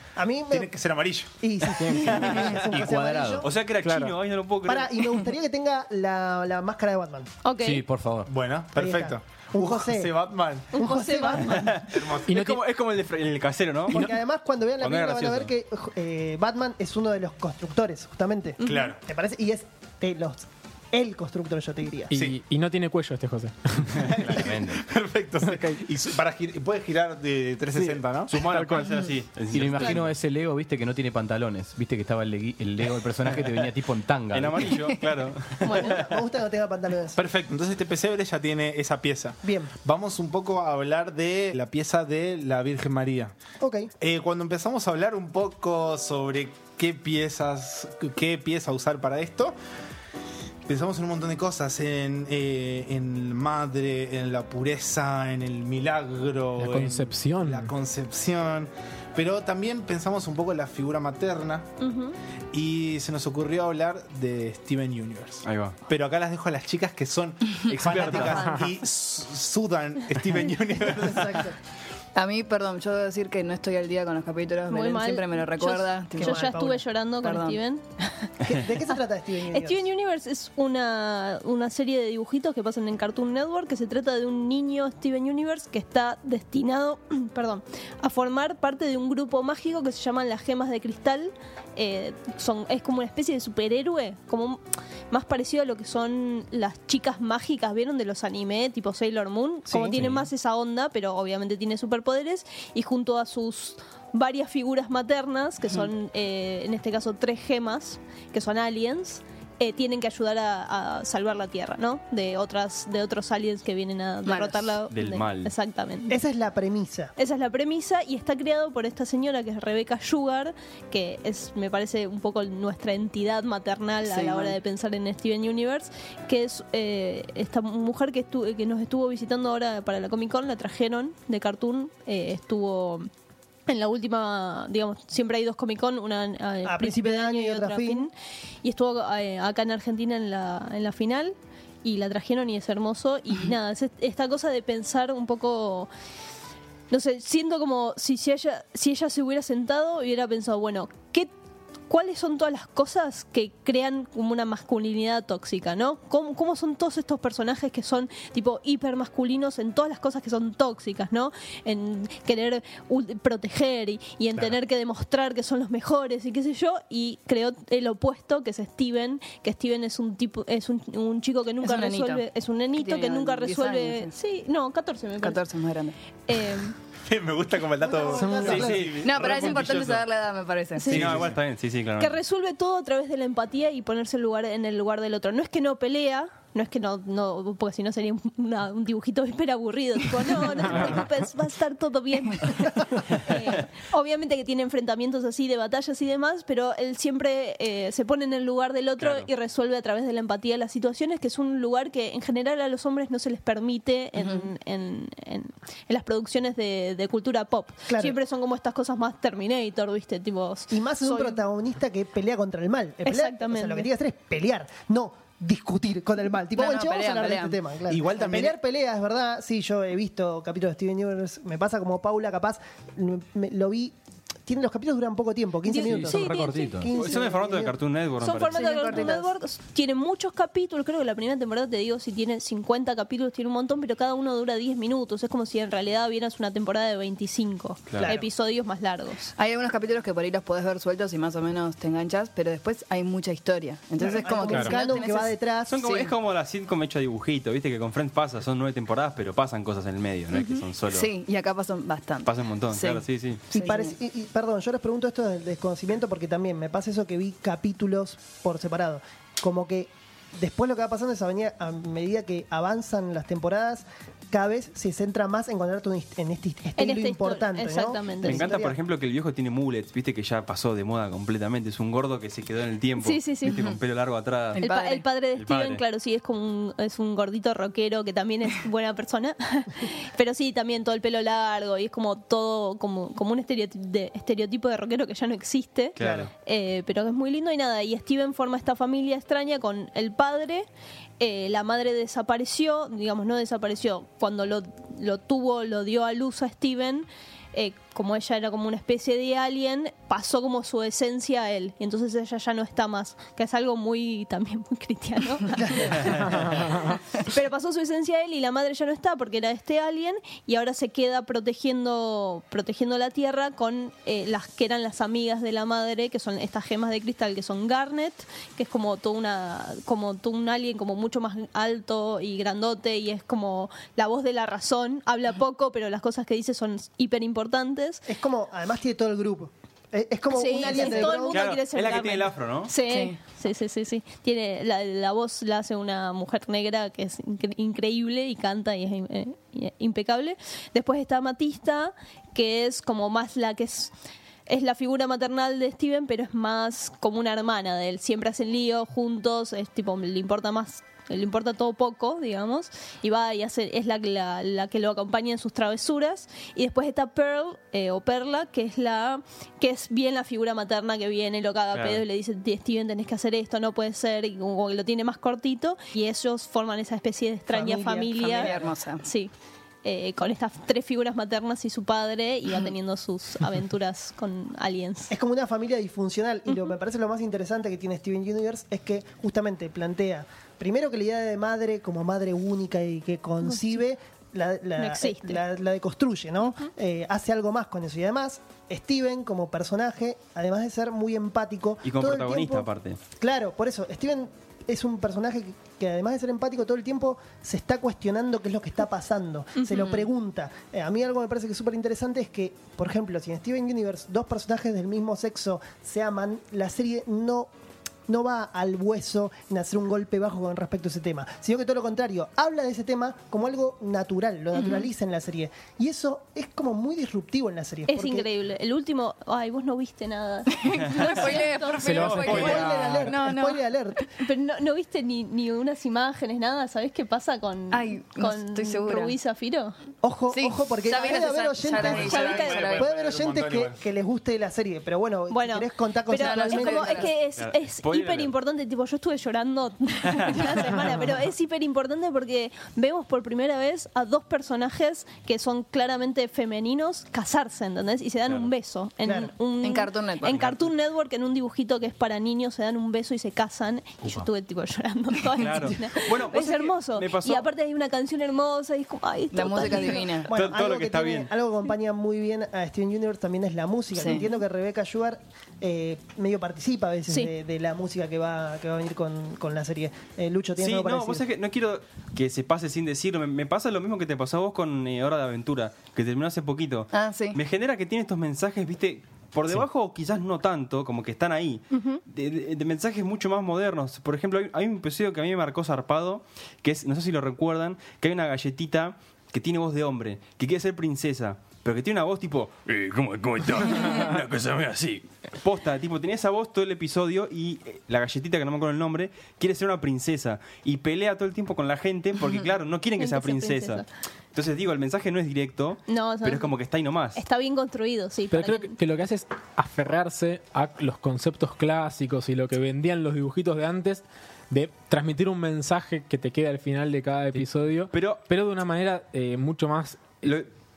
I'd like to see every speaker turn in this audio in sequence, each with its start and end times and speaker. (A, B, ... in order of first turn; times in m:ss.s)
0:00.2-0:00.7 A
0:00.5-0:01.3 B
0:01.4-0:03.5 A
0:01.8-0:02.4 C
0:02.6-0:03.5 D
0:03.4-0:05.2 E
0:03.8-0:04.2 C
0:04.7-0:07.3 A
0:07.4-0:07.8 F
0:07.6-0:08.3 D
0:08.3-0:10.7 B
0:08.8-0:10.1 A
0:10.7-0:11.8 A
0:10.7-0:11.7 F
0:11.5-0:14.1 E
0:11.9-0:12.3 B
0:12.3-0:12.6 C
0:13.9-0:14.2 C
0:13.9-0:22.1 A
0:14.8-0:15.5 E
0:18.6-0:18.9 F
0:18.6-0:19.0 B
0:22.1-0:24.4 C
0:22.1-0:22.4 B
0:23.9-0:28.3 B
0:24.3-0:24.8 D
0:25.4-0:25.8 C
0:27.8-0:28.8 C
0:28.3-0:30.1 E
0:29.5-0:34.7 D
0:34.3-0:36.0 E
0:34.8-0:35.1 G
0:35.7-0:36.0 G
0:35.7-0:37.2 A
0:37.2-0:43.4 B
0:39.4-0:39.7 A
0:43.6-0:43.9 A
0:44.0-0:49.6 B
0:50.7-1:01.7 B
0:56.6-0:57.7 C
1:01.8-1:02.2 F
1:02.5-1:11.5 B
1:05.4-1:05.8 E
1:07.7-1:08.4 E
1:08.4-1:08.7 C
1:10.9-1:11.5 A
1:12.2-1:17.6 G
1:14.7-1:18.6 F
1:16.2-1:16.8 A
1:18.4-1:19.8 A
1:19.5-1:34.6 F
1:35.1-1:56.2 F
1:39.7-1:40.0 A
1:40.0-1:40.2 E
1:54.3-1:54.8 G
1:54.9-1:55.5 E
1:56.1-1:57.1 A
1:57.2-2:13.1 F
2:04.0-2:04.6 G
2:13.7-2:25.9 F
2:16.6-2:18.1 A
2:26.9-2:31.3 F
2:31.9-2:55.4 F
2:51.6-2:54.2 G
2:55.2-2:56.0 G
2:56.3-2:56.7 F
2:57.0-2:59.7 B
2:57.8-2:59.0 A
2:58.2-2:58.8 C
2:58.4-3:00.1 E
2:59.0-3:01.1 G
3:00.8-3:01.1 F
3:00.9-3:02.2 E
3:00.9-3:01.4 B
3:02.0-3:31.4 F
3:19.0-3:19.3 E
3:24.2-3:24.5 G
3:27.9-3:28.2 A
3:30.7-3:43.9 A
3:33.1-3:33.9 F
3:36.5-3:37.6 G
3:37.9-3:38.6 B
3:44.5-3:47.8 A
3:45.7-3:46.8 F
3:45.8-3:46.9 D
3:46.9-3:49.1 E
3:48.2-3:59.3 F
3:48.5-3:49.3 A
3:59.4-4:06.1 G
4:04.0-4:05.7 A
4:05.7-4:11.1 E
4:10.9-4:14.0 G
4:12.2-4:13.4 E
4:13.5-4:28.8 A
4:26.8-4:28.5 F
4:28.2-4:34.6 E
4:33.0-4:33.6 F
4:33.5-4:33.8 G
4:34.6-4:35.0 G
4:34.6-4:50.7 F
4:35.4-4:35.8 E
4:46.0-4:46.3 E
4:46.0-4:46.3 A
4:51.2-5:28.0 F
5:06.2-5:06.8 C
5:28.1-5:31.5 A
5:30.3-5:43.9 F
5:30.8-5:32.7 E
5:32.8-5:33.2 G
5:44.5-6:09.3 F
6:01.7-6:02.0 E
6:07.5-6:08.6 A
6:08.2-6:09.0 G
6:09.8-6:15.1 F
6:15.1-6:32.7 A
6:24.8-6:25.4 F
6:31.8-6:33.0 E
6:33.2-6:47.5 A
6:39.7-6:40.1 G
6:48.1-6:58.3 A
6:54.6-6:54.9 G
6:57.9-7:02.5 F
7:00.5-7:03.6 G
7:01.8-7:03.1 C
7:02.2-7:04.0 A
7:04.2-7:09.8 F
7:07.7-7:09.2 G
7:10.0-7:17.1 A
7:10.3-7:12.9 G
7:11.1-7:12.7 F
7:11.8-7:13.8 B
7:15.3-7:40.2 F
7:16.1-7:17.1 G
7:17.4-7:18.3 E
7:29.0-7:29.3 A
7:29.6-7:30.5 G
7:35.4-7:37.5 E
7:39.3-7:40.3 G
7:40.3-7:51.2 A
7:40.3-7:41.3 E
7:44.0-7:44.2 G
7:50.6-8:27.2 E
7:56.9-7:57.4 G
8:01.7-8:02.0 F
8:23.0-8:23.8 F
8:25.9-8:26.5 F
8:27.2-8:28.8 F
8:28.3-8:40.3 C
8:37.9-8:38.2 E
8:40.2-8:40.5 E